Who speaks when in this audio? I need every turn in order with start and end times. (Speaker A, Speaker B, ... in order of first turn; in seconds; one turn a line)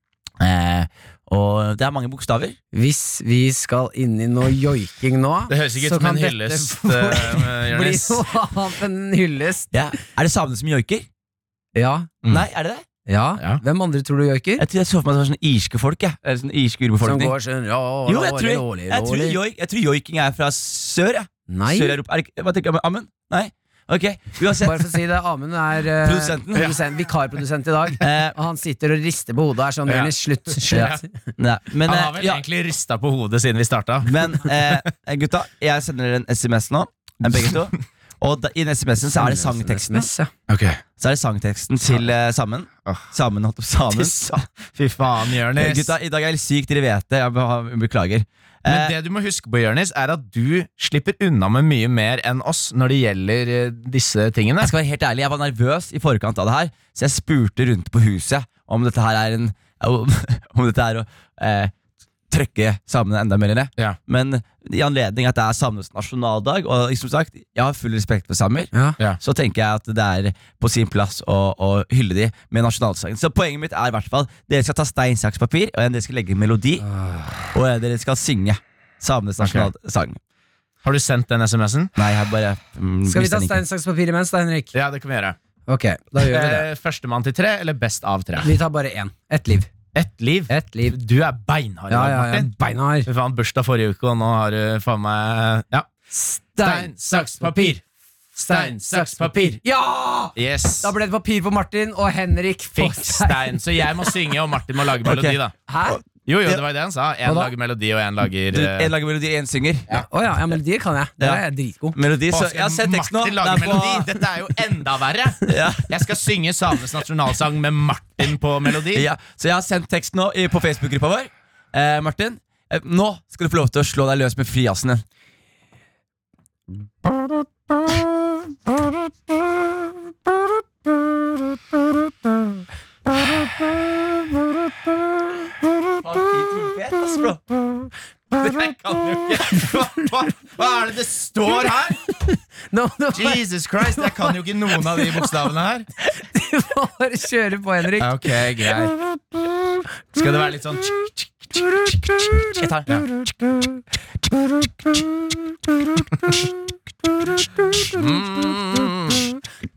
Speaker A: 0.4-2.6
Speaker B: 2.7-9.7
Speaker C: 5.5-8.2
Speaker A: 9.7-11.1
Speaker B: 11.7-12.1
Speaker A: 12.3-12.8
Speaker B: 13.1-14.6
Speaker A: 14.6-17.3
Speaker B: 17.0-19.4
Speaker A: 18.1-24.9
Speaker B: 21.5-21.9
Speaker B: 24.6-31.1
Speaker A: 26.0-26.7
Speaker A: 28.0-28.3
Speaker C: 30.7-31.0
Speaker A: 30.7-32.4
Speaker C: 31.8-34.8
Speaker A: 34.0-40.1
Speaker C: 37.2-37.7
Speaker B: 39.1-40.3
Speaker C: 40.5-40.8
Speaker A: 41.0-44.4
Speaker C: 43.9-45.9
Speaker A: 45.5-48.9
Speaker C: 48.6-54.7
Speaker A: 54.6-61.7
Speaker A: 62.3-76.8
Speaker B: 76.8-77.5
Speaker A: 77.5-80.2
Speaker C: 79.4-79.7
Speaker C: 80.8-81.9
Speaker A: 82.0-83.6
Speaker B: 83.0-84.7
Speaker C: 84.7-85.4
Speaker B: 85.7-86.7
Speaker C: 86.2-88.5
Speaker B: 88.4-89.7
Speaker C: 89.9-92.5
Speaker B: 90.5-91.0
Speaker B: 91.9-93.1
Speaker C: 93.0-95.9
Speaker B: 96.1-97.7
Speaker C: 96.6-97.8
Speaker C: 98.4-99.6
Speaker B: 98.5-104.1
Speaker C: 100.3-100.9
Speaker C: 102.8-105.5
Speaker A: 105.0-106.6
Speaker B: 105.7-106.0
Speaker C: 106.2-108.9
Speaker B: 107.2-107.5
Speaker A: 108.5-110.0
Speaker B: 110.1-112.0
Speaker A: 111.9-114.1
Speaker C: 112.3-119.0
Speaker A: 115.5-116.0
Speaker A: 118.9-125.0
Speaker A: 136.0-137.4
Speaker C: 138.4-142.0
Speaker B: 139.5-140.1
Speaker B: 142.0-145.3
Speaker C: 143.1-145.8
Speaker B: 146.0-148.7
Speaker C: 148.0-148.9
Speaker C: 150.1-151.6
Speaker B: 151.8-152.6
Speaker A: 152.5-152.9
Speaker C: 157.8-159.3